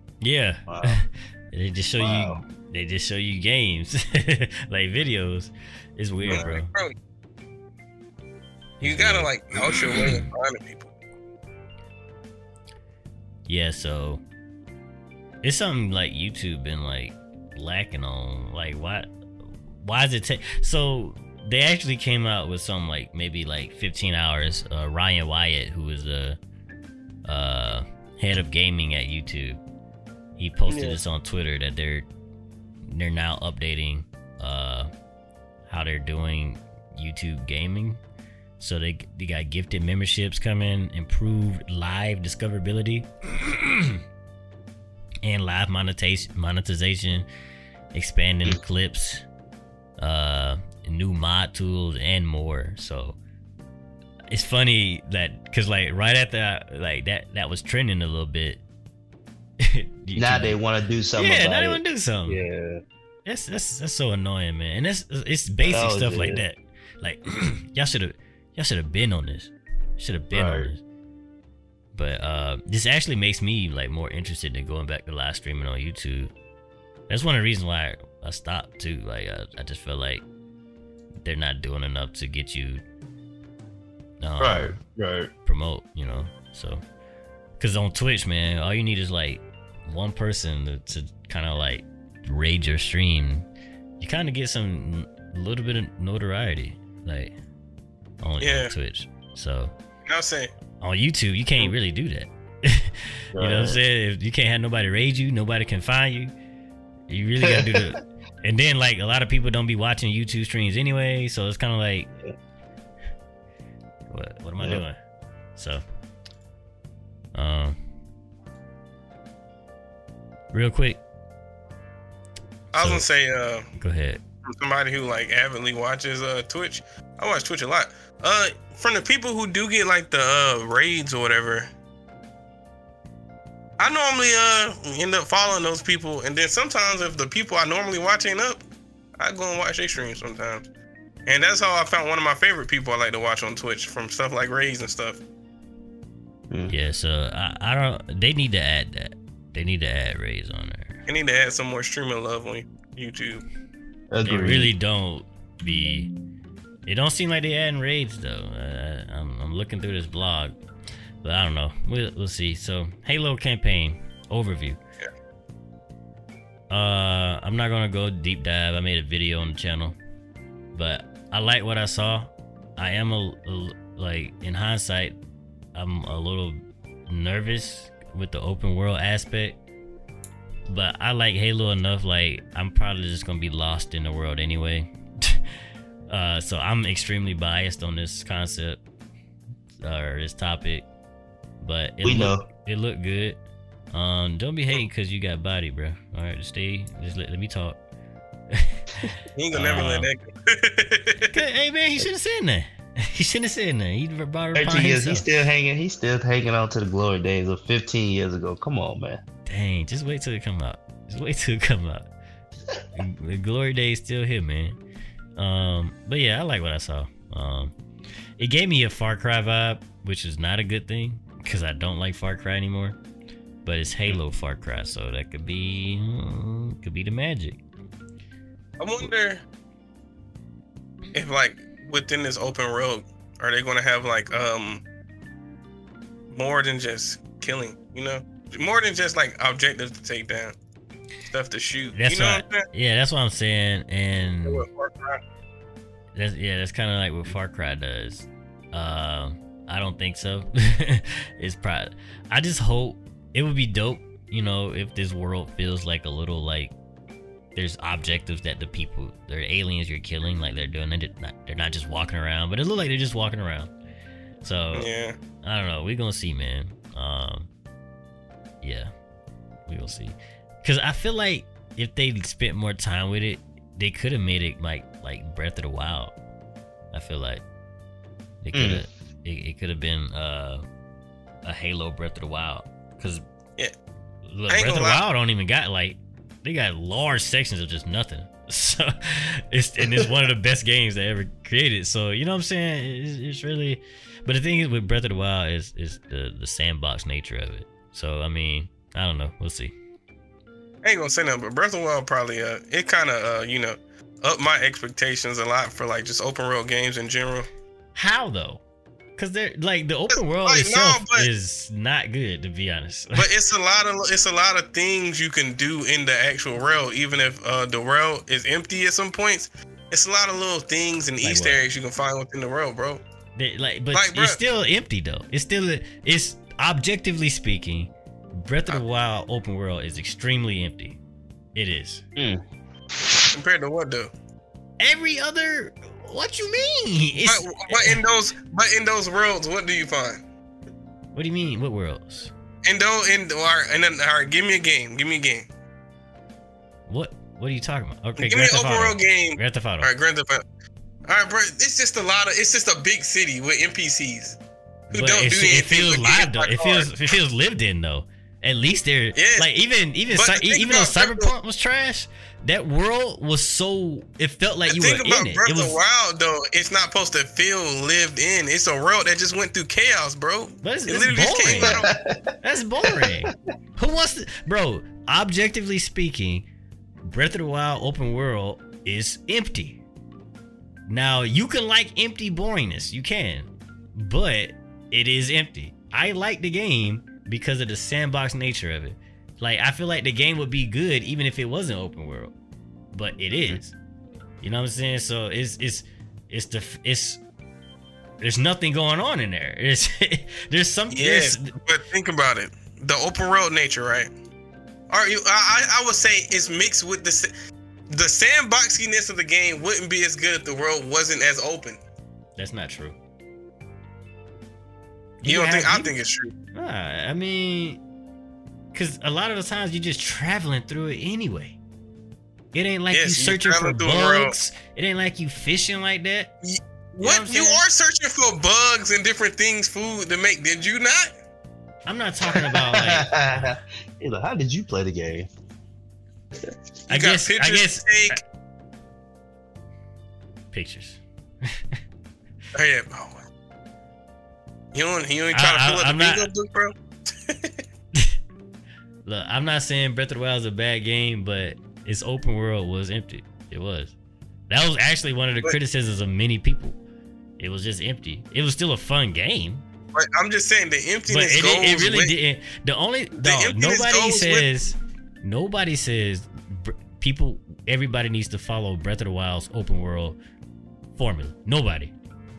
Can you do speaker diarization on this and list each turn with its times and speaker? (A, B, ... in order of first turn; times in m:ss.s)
0:00.2-0:06.7 A
0:00.7-0:01.0 B
0:02.0-0:02.4 B
0:06.2-0:06.9 C
0:06.3-0:06.5 B
0:08.8-0:09.3 A
0:08.8-0:10.9 C
0:09.6-0:10.1 B
0:10.0-0:10.3 A
0:13.5-0:14.2 A
0:15.4-0:19.1 A
0:19.8-0:26.4 A
0:27.3-0:29.6 A
0:30.4-0:32.1 A
0:30.7-0:31.0 C
0:32.9-0:34.9 A
0:35.7-0:38.0 A
0:38.6-0:44.0 A
0:45.2-0:47.3 A
0:47.9-0:49.2 A
0:50.0-0:53.2 A
0:54.3-0:58.6 A
0:59.6-1:00.6 A
1:00.2-1:02.8 B
1:01.2-1:02.4 A
1:03.3-1:10.8 A
1:05.6-1:06.4 B
1:10.3-1:10.7 B
1:11.9-1:16.3 A
1:17.1-1:20.2 A
1:21.2-1:22.8 A
1:24.2-1:24.8 A
1:24.4-1:25.3 B
1:25.5-1:26.8 A
1:27.6-1:33.5 A
1:34.0-1:37.4 A
1:38.2-1:39.7 A
1:38.4-1:38.7 C
1:40.1-1:40.5 C
1:40.8-1:46.3 A
1:43.4-1:43.8 B
1:47.1-1:52.1 A
1:47.4-1:47.9 B
1:54.1-1:55.0 A
1:55.6-1:55.8 A
1:57.4-1:57.8 A
2:00.5-2:01.0 A
2:02.7-2:03.7 C
2:02.8-2:03.0 A
2:03.8-2:04.2 A
2:04.5-2:11.7 C
2:13.8-2:18.6 C
2:19.2-2:20.6 C
2:21.3-2:25.2 C
2:26.7-2:31.0 A
2:31.1-2:33.4 C
2:34.1-2:34.7 B
2:34.2-2:36.1 A
2:36.9-2:40.6 A
2:41.2-2:44.8 A
2:46.7-2:50.0 A
2:50.8-2:55.2 A
2:55.8-2:56.6 A
2:57.1-2:59.6 A
3:00.7-3:05.4 A
3:06.1-3:08.8 A
3:09.8-3:10.8 A
3:11.6-3:13.4 A
3:12.0-3:12.5 B
3:13.9-3:17.8 A
3:19.4-3:21.3 C
3:19.5-3:20.1 A
3:21.3-3:25.3 A
3:24.6-3:29.2 B
3:29.5-3:32.1 A
3:33.0-3:34.8 A
3:35.4-3:37.7 A
3:38.4-3:43.0 A
3:43.6-3:47.6 A
3:48.8-3:49.4 C
3:51.1-3:54.8 C
3:56.3-4:00.6 C
4:01.3-4:02.6 C
4:02.0-4:04.7 A
4:04.5-4:05.2 C
4:06.2-4:16.7 A
4:17.6-4:23.7 A
4:24.4-4:24.9 A
4:24.7-4:25.2 C
4:25.4-4:27.5 A
4:28.6-4:28.9 A
4:29.7-4:36.2 A
4:36.9-4:37.4 A
4:38.4-4:40.6 A
4:38.5-4:38.8 B
4:41.4-4:43.2 A
4:44.3-4:59.7 A
4:44.5-4:45.0 C
4:49.8-4:50.1 B
5:00.8-5:07.5 C
5:08.0-5:08.6 A
5:09.2-5:13.3 A
5:10.1-5:11.3 C
5:13.2-5:23.0 C
5:21.2-5:21.6 A
5:23.4-5:31.0 A
5:23.9-5:24.4 C
5:31.6-5:32.0 A
5:32.2-5:32.4 B
5:33.0-5:33.3 B
5:33.3-5:34.1 C
5:34.8-5:38.0 A
5:37.3-5:40.2 C
5:41.1-5:42.3 A
5:42.6-5:45.5 C
5:46.9-5:49.9 A
5:48.2-5:50.4 C
5:51.1-5:54.4 C
5:54.9-5:57.1 C
5:54.9-6:05.8 A
5:59.2-5:59.5 C
6:00.1-6:01.3 C
6:04.7-6:11.9 C
6:10.6-6:11.9 A
6:11.6-6:12.2 B
6:12.4-6:16.4 A
6:12.8-6:13.3 B
6:17.0-6:19.8 A
6:20.9-6:32.3 A
6:32.9-6:33.8 A
6:34.4-6:37.2 A
6:38.2-6:41.6 A
6:40.9-6:44.1 C
6:44.9-6:47.3 C
6:47.9-6:51.8 C
6:52.4-6:53.0 A
6:55.2-6:55.9 A
6:55.2-6:56.3 C
6:56.5-6:57.8 A
6:58.7-7:01.6 A
7:02.5-7:06.3 A
7:02.9-7:04.3 C
7:06.4-7:11.1 C
7:07.0-7:07.6 A
7:11.9-7:13.5 A
7:12.3-7:15.3 B
7:16.9-7:18.2 A
7:16.9-7:18.2 C
7:20.5-7:21.8 A
7:22.6-7:23.2 C
7:24.7-7:27.6 C
7:25.3-7:26.3 A
7:29.1-7:34.0 A
7:34.5-7:36.8 A
7:37.4-7:39.6 A
7:39.9-7:42.2 C
7:41.1-7:50.2 A
7:43.2-7:44.5 C
7:51.0-7:51.9 A